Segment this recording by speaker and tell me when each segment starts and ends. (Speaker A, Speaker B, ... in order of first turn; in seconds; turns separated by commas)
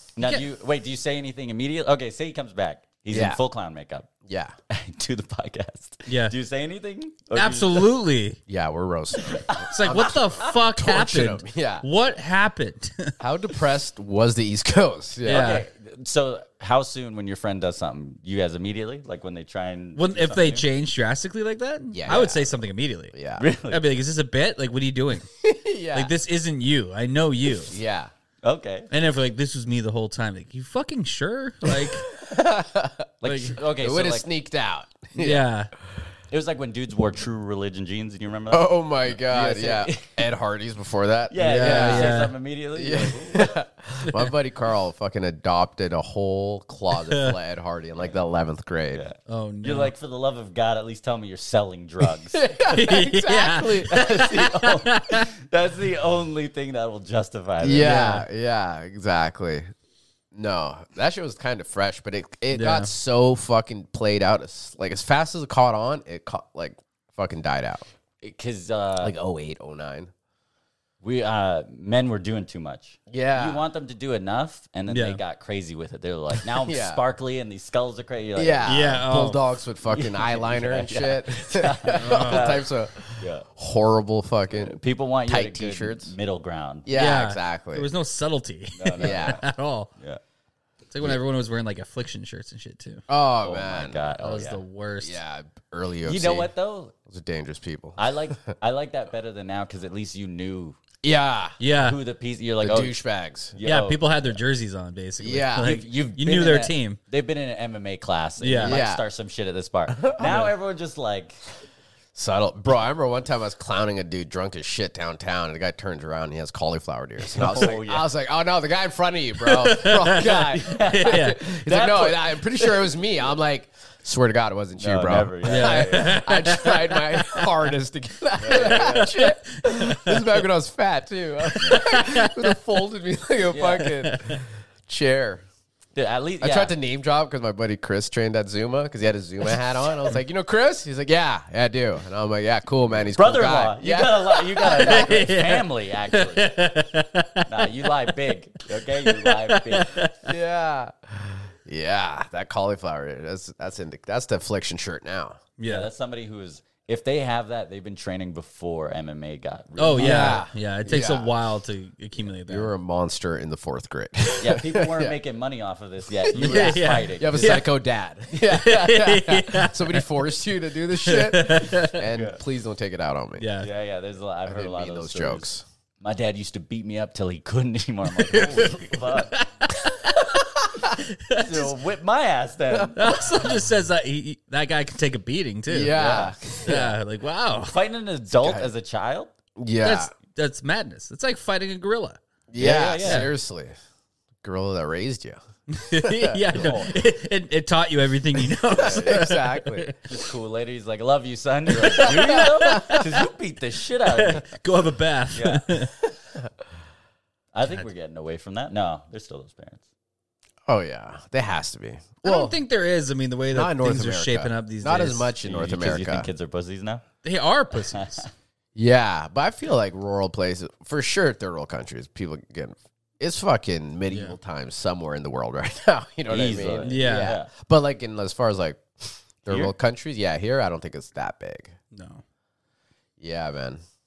Speaker A: 0.1-4.1, Speaker B: 3.1-3.4, Speaker B: 4.2-4.5, Speaker A: 4.7-7.9, Speaker C: 6.1-6.3, Speaker C: 7.3-8.4, Speaker B: 8.5-11.8, Speaker A: 9.2-9.7, Speaker C: 9.7-13.2, Speaker B: 13.2-15.6, Speaker C: 15.2-15.6, Speaker A: 15.3-20.7, Speaker C: 19.9-23.1, Speaker B: 21.9-22.6, Speaker B: 23.1-23.4, Speaker A: 23.4-23.8, Speaker C: 23.7-25.3, Speaker B: 25.4-26.1, Speaker C: 25.9-27.8, Speaker B: 27.6-28.1, Speaker A: 28.4-28.9, Speaker C: 28.9-32.1, Speaker B: 31.6-33.1, Speaker A: 33.2-34.2, Speaker C: 33.2-33.6, Speaker B: 33.8-35.5, Speaker C: 35.1-35.7, Speaker A: 36.3-40.2, Speaker B: 38.5-49.0, Speaker A: 41.3-43.5, Speaker C: 41.4-42.3, Speaker C: 47.1-47.3, Speaker A: 48.9-52.4, Speaker C: 49.3-49.9, Speaker B: 52.3-54.6, Speaker C: 52.7-55.3, Speaker A: 53.9-58.0, Speaker B: 57.6-59.7, Speaker C: 57.8-58.2, Speaker B: 60.3-67.8, Speaker C: 62.5-62.9, Speaker A: 68.2-69.1, Speaker B: 69.0-70.1, Speaker A: 71.0-79.0, Speaker B: 73.1-73.6, Speaker C: 74.9-75.2, Speaker B: 76.5-77.0, Speaker B: 78.3-86.1, Speaker C: 78.6-79.4, Speaker A: 79.8-83.5, Speaker C: 81.9-82.5, Speaker A: 84.5-86.9, Speaker B: 86.8-87.9, Speaker C: 86.9-89.9, Speaker A: 88.7-89.4, Speaker B: 89.0-89.4, Speaker C: 90.9-93.0, Speaker B: 93.1-94.0, Speaker A: 93.4-94.6, Speaker C: 94.2-95.2, Speaker B: 95.0-96.5, Speaker A: 96.0-96.9, Speaker B: 97.0-98.5, Speaker A: 98.0-100.8, Speaker B: 101.0-101.6, Speaker C: 101.6-102.0, Speaker A: 101.7-103.0, Speaker B: 102.6-103.6, Speaker A: 103.5-104.4, Speaker C: 103.6-107.0, Speaker B: 105.2-105.8, Speaker A: 105.6-111.4, Speaker C: 108.4-108.8, Speaker B: 108.6-109.0, Speaker B: 109.9-110.5, Speaker C: 110.2-110.5, Speaker B: 112.1-135.4, Speaker A: 117.3-118.1, Speaker C: 119.4-121.4, Speaker A: 120.1-123.0, Speaker A: 124.8-126.2, Speaker C: 125.4-127.5, Speaker A: 128.4-129.1, Speaker C: 128.5-130.4, Speaker C: 131.4-132.5, Speaker A: 131.6-131.9, Speaker A: 133.5-133.9, Speaker C: 133.8-134.4, Speaker A: 135.9-136.7, Speaker B: 136.4-145.3, Speaker A: 143.1-146.7, Speaker C: 144.6-148.1, Speaker A: 147.5-150.1, Speaker C: 149.0-150.1, Speaker B: 150.2-155.4, Speaker C: 155.6-155.9, Speaker A: 155.7-160.4, Speaker C: 159.8-162.7, Speaker B: 159.9-161.3, Speaker B: 162.4-165.2, Speaker A: 164.4-167.7, Speaker C: 166.3-167.7, Speaker B: 166.3-173.5, Speaker C: 168.5-170.1, Speaker C: 170.9-172.0, Speaker A: 172.1-172.4, Speaker C: 173.4-173.7, Speaker A: 173.6-175.5, Speaker B: 174.4-175.6, Speaker A: 176.0-179.3, Speaker C: 178.1-180.2, Speaker C: 180.8-181.7, Speaker A: 181.3-183.2, Speaker C: 182.9-187.8, Speaker B: 185.7-186.9, Speaker A: 185.9-186.8, Speaker A: 187.6-189.3, Speaker B: 188.3-188.7, Speaker B: 189.6-190.1, Speaker C: 189.8-192.2, Speaker B: 192.5-193.7, Speaker A: 192.6-193.3, Speaker C: 193.0-193.3, Speaker B: 194.4-195.4, Speaker C: 195.7-200.0, Speaker B: 195.9-196.7, Speaker A: 196.5-196.9, Speaker A: 198.7-199.4, Speaker B: 198.7-199.9, Speaker A: 200.1-204.5, Speaker C: 201.7-203.1, Speaker B: 202.0-202.5, Speaker C: 204.1-205.9, Speaker A: 205.3-205.6, Speaker A: 207.5-209.8, Speaker B: 210.7-212.6, Speaker C: 212.2-215.3, Speaker B: 213.5-216.3, Speaker A: 215.4-217.0, Speaker C: 217.2-218.2, Speaker A: 217.9-218.3, Speaker B: 218.7-231.7, Speaker C: 224.1-224.3, Speaker A: 226.3-227.5, Speaker C: 226.8-227.3, Speaker C: 231.9-232.2, Speaker B: 233.2-233.8